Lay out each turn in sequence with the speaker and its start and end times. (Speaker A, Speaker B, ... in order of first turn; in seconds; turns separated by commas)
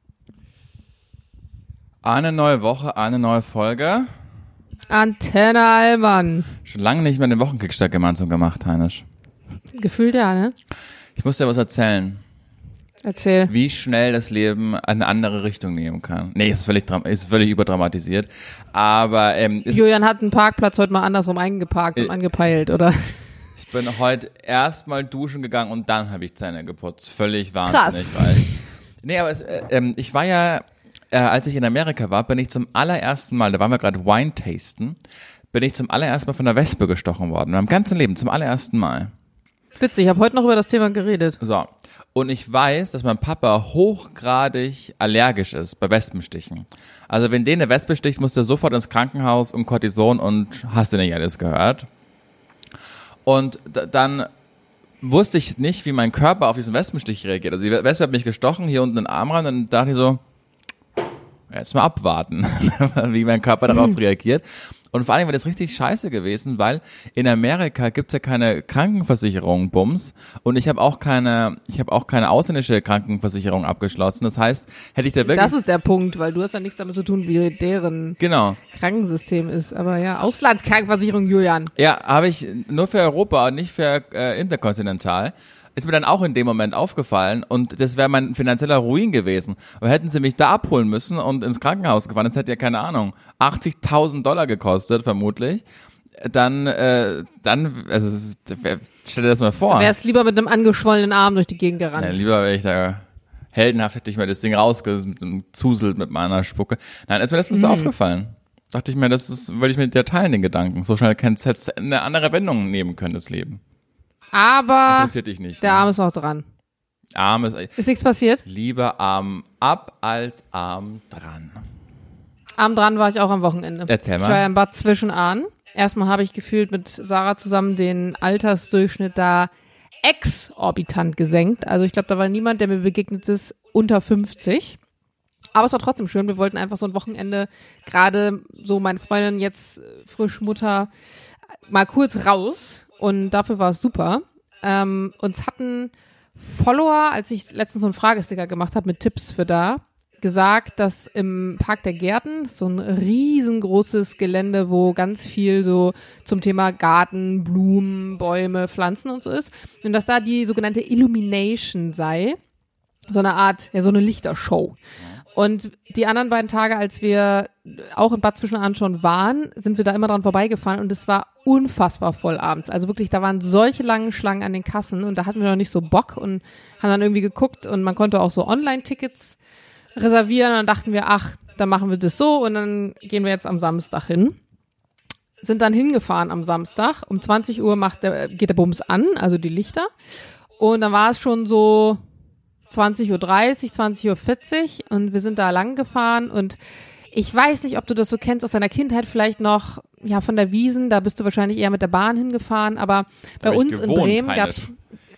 Speaker A: 2.0-4.1, Speaker B: 4.9-6.5, Speaker A: 6.6-9.0, Speaker B: 9.7-10.5, Speaker A: 11.2-12.2, Speaker B: 13.0-13.5, Speaker A: 13.5-19.8, Speaker B: 19.7-23.2, Speaker A: 23.6-28.4, Speaker B: 27.6-28.6, Speaker A: 29.0-35.0, Speaker A: 35.5-39.1, Speaker B: 39.8-41.4, Speaker A: 41.4-51.9, Speaker A: 53.2-54.3, Speaker A: 55.0-60.2, Speaker A: 61.5-75.5, Speaker B: 63.7-64.0, Speaker B: 75.2-78.2, Speaker A: 78.2-78.6, Speaker B: 78.7-81.7, Speaker A: 81.8-95.6, Speaker A: 96.2-99.9, Speaker B: 99.7-102.2, Speaker A: 101.9-113.6, Speaker B: 107.5-107.9, Speaker B: 114.3-116.4, Speaker A: 114.9-115.9, Speaker A: 117.2-117.7, Speaker B: 117.8-118.4, Speaker A: 118.4-121.6, Speaker B: 122.6-129.5, Speaker A: 123.9-124.4, Speaker B: 130.0-134.8, Speaker B: 135.5-140.9, Speaker B: 141.7-162.4, Speaker B: 163.1-164.8, Speaker B: 165.3-179.4, Speaker B: 179.9-184.4, Speaker B: 185.4-189.9, Speaker B: 190.6-192.0, Speaker B: 192.7-196.6, Speaker B: 197.1-204.7, Speaker A: 203.4-204.7